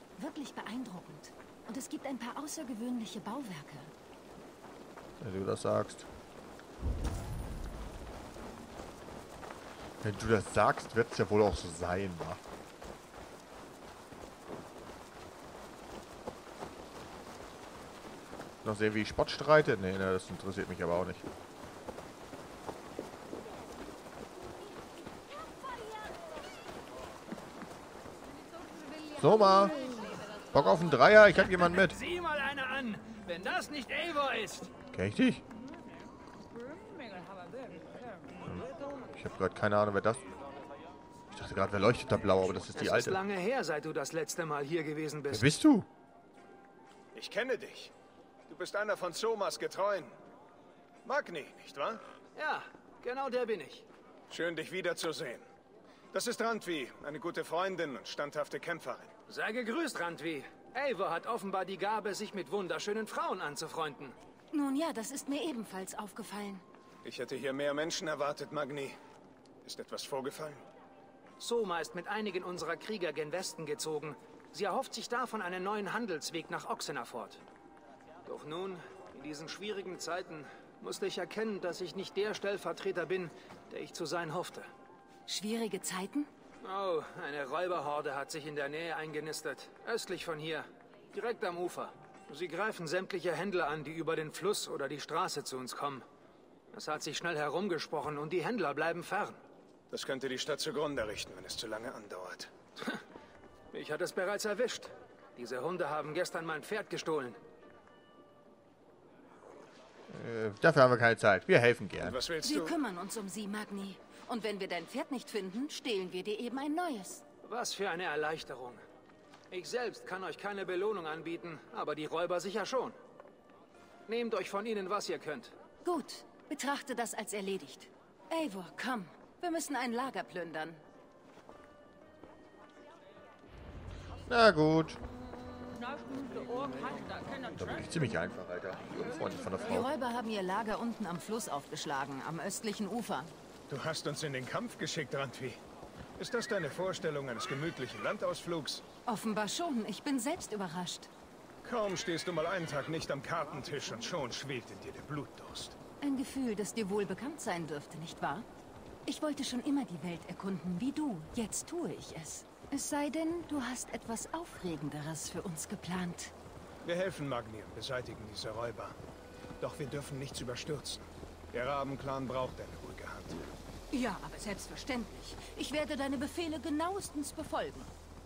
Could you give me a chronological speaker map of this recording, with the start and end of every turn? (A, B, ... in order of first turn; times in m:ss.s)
0:00.2-0:03.9 A
0:05.2-0:06.1 B
0:10.0-0:12.4 B
0:18.6-0:21.3 B
0:29.1-0:32.0 B
0:31.7-0:34.7 C
0:34.9-0:35.4 B
0:38.5-0:40.2 B
0:41.3-0:43.2 B
0:42.7-0:45.5 C
0:45.3-0:45.9 B
0:47.1-0:47.9 D
0:48.5-0:50.2 D
0:51.0-0:52.0 D
0:52.3-0:53.8 C
0:54.3-0:55.4 D
0:56.1-0:59.1 D
0:59.3-1:04.1 C
1:04.5-1:06.6 A
1:07.0-1:09.0 D
1:09.6-1:10.6 D
1:11.4-1:17.4 C
1:18.2-1:24.7 C
1:25.3-1:26.3 A
1:26.6-1:36.0 C
1:36.7-1:39.4 C
1:39.9-1:42.5 D
1:43.7-1:47.4 C
1:50.1-1:52.2 B
1:52.0-1:52.8 D
1:52.4-1:57.2 A
1:57.4-1:58.8 C
1:59.5-2:02.9 C
2:04.1-2:05.5 C
2:05.8-2:10.8 A
2:14.2-2:15.0 B
2:17.5-2:19.9 B
2:19.7-2:23.3 A
2:23.7-2:25.6 D
2:26.2-2:28.8 D
2:29.0-2:31.1 A
2:31.6-2:35.8 D
2:36.0-2:38.4 A
2:39.0-2:46.3 A
2:46.8-2:49.0 D
2:49.6-2:53.4 D
2:53.9-2:57.9 A